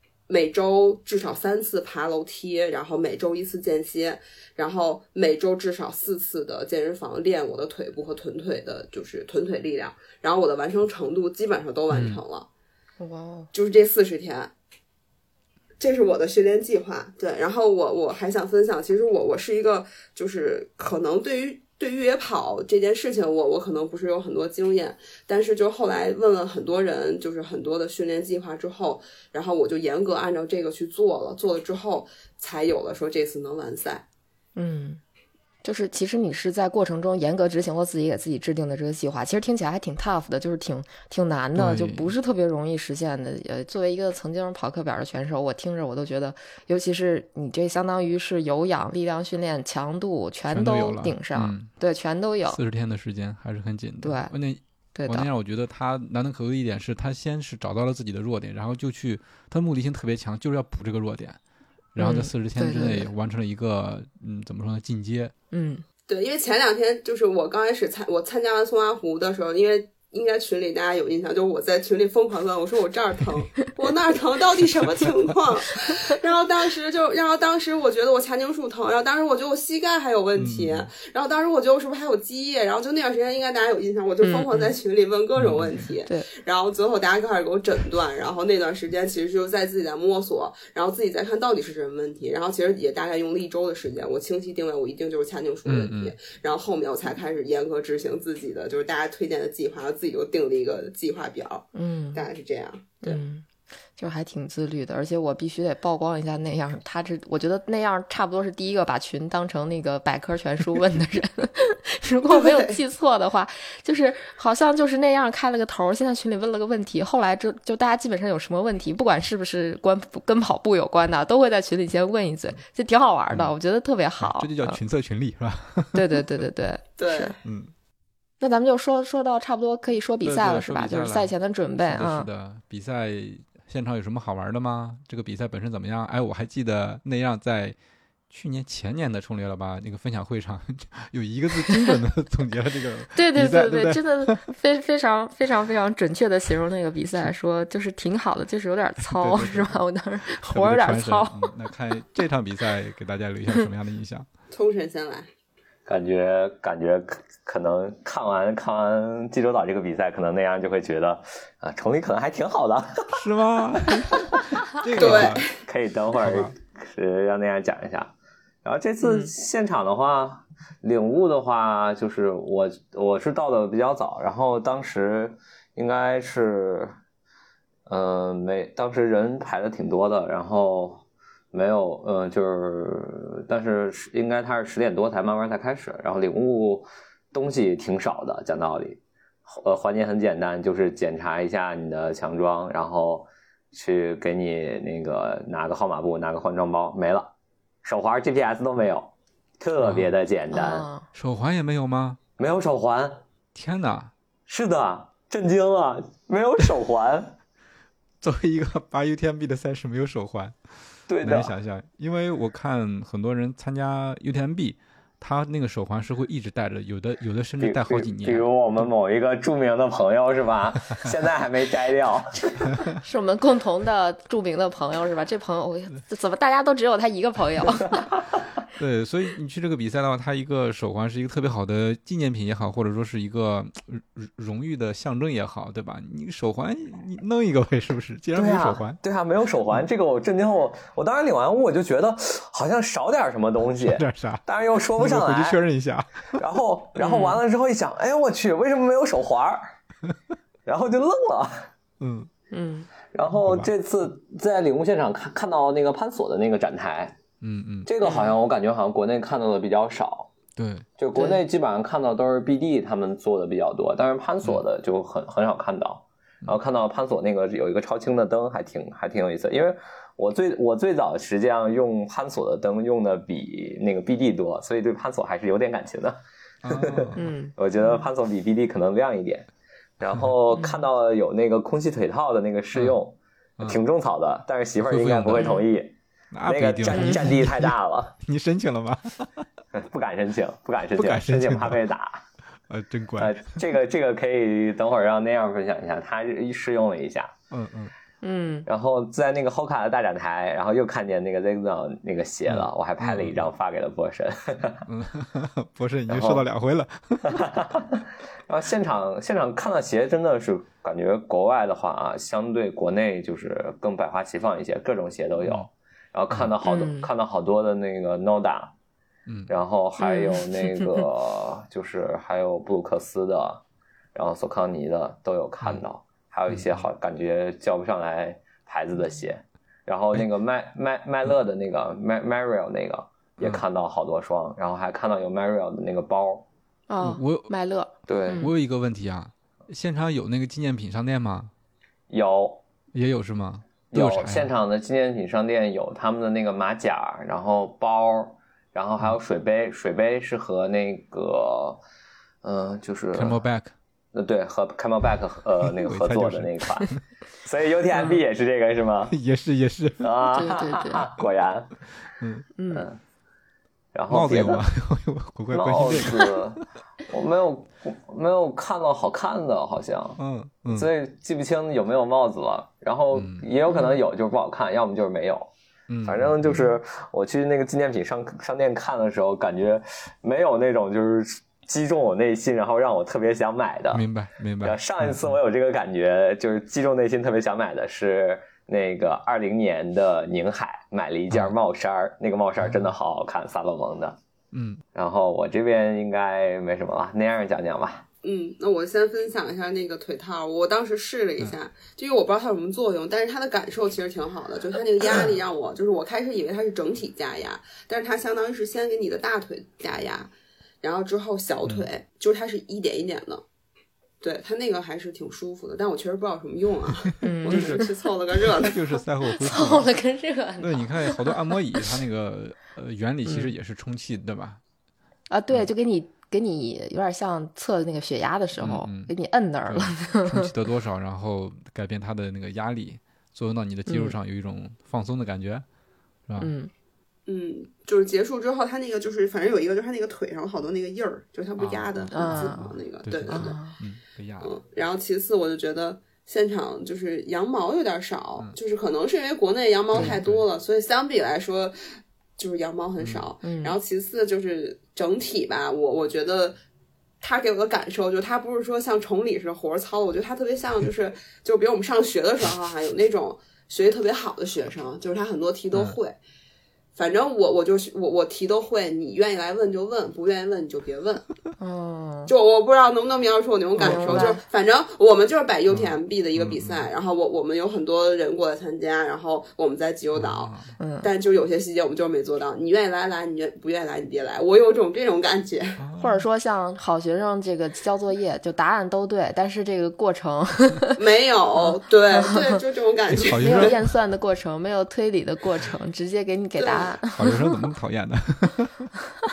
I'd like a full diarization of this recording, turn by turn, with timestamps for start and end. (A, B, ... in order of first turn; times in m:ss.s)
0:00.3-0:12.5 A
0:11.9-0:12.2 B
0:13.0-0:13.5 C
0:13.5-0:14.5 A
0:15.8-0:34.0 A
0:34.6-0:35.0 C
0:35.6-0:52.6 C
0:41.6-0:42.1 B
0:50.5-0:51.7 B
0:52.5-1:01.4 B
0:54.0-0:54.3 C
0:55.0-0:55.3 C
1:02.0-1:05.3 B
1:02.0-1:03.1 C
1:05.5-1:05.8 C
1:06.1-1:43.2 A
1:14.8-1:15.3 B
1:20.4-1:20.9 B
1:24.2-1:24.7 C
1:25.4-1:25.8 B
1:35.7-1:36.2 B
1:41.8-1:42.2 C
1:43.0-1:43.4 C
1:44.0-2:04.8 C
1:52.2-1:52.8 A
2:04.2-2:06.2 B
2:05.9-2:07.4 C
2:07.0-2:07.4 A
2:07.4-2:07.7 B
2:08.4-2:12.3 C
2:10.2-2:17.8 B
2:18.3-2:24.5 B
2:21.7-2:22.0 C
2:23.2-2:31.5 C
2:29.0-2:29.8 B
2:30.4-2:34.3 B
2:34.5-2:35.3 A
2:35.9-2:43.2 D
2:43.1-2:45.5 B
2:45.0-2:45.5 A
2:45.0-2:56.9 D
2:46.2-2:46.5 B
2:49.0-2:49.3 C
2:57.9-3:17.3 D
3:17.8-3:20.9 D
3:19.8-3:20.1 B
3:20.5-3:21.1 C
3:21.1-3:22.2 B
3:22.4-3:23.2 D
3:23.5-3:24.1 B
3:24.5-3:27.4 D
3:28.2-3:30.6 B
3:31.1-3:31.5 D
3:31.2-3:38.5 B
3:37.6-3:42.6 D
3:43.0-3:48.1 C
3:48.8-3:59.0 B
3:58.4-4:05.6 D
4:03.8-4:04.4 B
4:05.0-4:06.4 B
4:06.3-4:09.6 D
4:07.0-4:07.4 C
4:10.7-4:11.7 D
4:12.0-4:12.3 B
4:12.5-4:12.9 C
4:13.1-4:17.2 D
4:13.3-4:13.7 B
4:17.4-4:17.9 B
4:17.9-4:20.3 D
4:18.0-4:18.3 C
4:20.6-4:20.9 B
4:21.0-4:36.2 D
4:21.2-4:21.4 C
4:36.6-4:37.3 B
4:36.7-4:39.5 D
4:37.2-4:38.0 C
4:40.0-4:45.9 D
4:40.5-4:40.8 C
4:44.9-4:45.6 B
4:45.4-4:45.6 C
4:46.3-4:49.4 B
4:46.5-4:48.1 D
4:46.9-4:47.2 C
4:49.7-4:52.2 D
4:51.0-4:51.8 B
4:52.7-4:53.6 B
4:53.2-4:57.3 D
4:57.5-4:57.9 B
4:58.2-4:58.7 C
4:58.7-5:04.9 D
5:02.5-5:03.4 B
5:04.9-5:07.6 B
5:06.1-5:06.4 D
5:07.3-5:18.7 D
5:15.4-5:15.7 B
5:16.6-5:17.1 C
5:19.5-5:23.6 D
5:20.0-5:20.9 C
5:24.2-5:36.5 D
5:26.5-5:26.8 B
5:36.9-5:38.5 C
5:37.0-5:37.5 B
5:38.1-5:38.5 D
5:38.4-5:41.5 B
5:42.1-5:42.6 D
5:42.9-5:44.5 B
5:43.9-5:51.8 D
5:52.4-5:53.4 D
5:53.1-5:53.7 B
5:54.1-5:59.1 D
5:55.6-5:57.0 B
5:59.1-6:00.2 B
6:00.0-6:01.8 D
6:00.3-6:01.1 C
6:02.2-6:02.5 B
6:02.6-6:02.9 C
6:02.7-6:03.0 D
6:03.9-6:04.7 D
6:04.1-6:06.6 B
6:05.5-6:10.2 D
6:10.2-6:10.9 B
6:10.7-6:15.5 D
6:13.1-6:13.5 B
6:13.7-6:14.0 C
6:15.9-6:16.5 B
6:16.0-6:24.0 D
6:23.9-6:25.3 B
6:24.6-6:34.2 D
6:32.6-6:32.9 B
6:34.5-6:34.8 B
6:34.9-6:38.0 D
6:38.2-6:50.3 A
6:50.8-6:53.4 A
6:54.2-6:58.8 A
6:57.2-6:57.9 C
6:57.5-6:57.9 B
6:58.4-6:59.9 B
6:59.4-7:01.4 C
7:00.6-7:04.6 B
7:05.3-7:10.5 C
7:08.6-7:09.1 B
7:09.7-7:15.6 B
7:13.9-7:14.2 C
7:16.3-7:16.5 B
7:16.4-7:16.7 C
7:17.3-7:23.6 A
7:21.6-7:24.6 B
7:22.1-7:22.7 C
7:23.3-7:23.8 C
7:24.4-7:31.8 A
7:29.9-7:30.5 B
7:32.4-7:36.6 A
7:33.0-7:33.3 B
7:33.4-7:33.8 C
7:37.2-7:46.2 A
7:47.0-7:51.3 A
7:51.6-7:52.3 C
7:52.3-8:05.8 A
7:53.8-7:54.3 B
7:53.8-7:54.4 C
7:55.7-7:56.9 B
8:00.2-8:00.8 B
8:00.8-8:01.1 C
8:05.8-8:06.2 B
8:06.0-8:11.0 C
8:11.0-8:13.8 A
8:12.1-8:12.6 C
8:13.1-8:13.8 B
8:13.4-8:17.6 C
8:16.6-8:16.9 A
8:17.2-8:18.9 B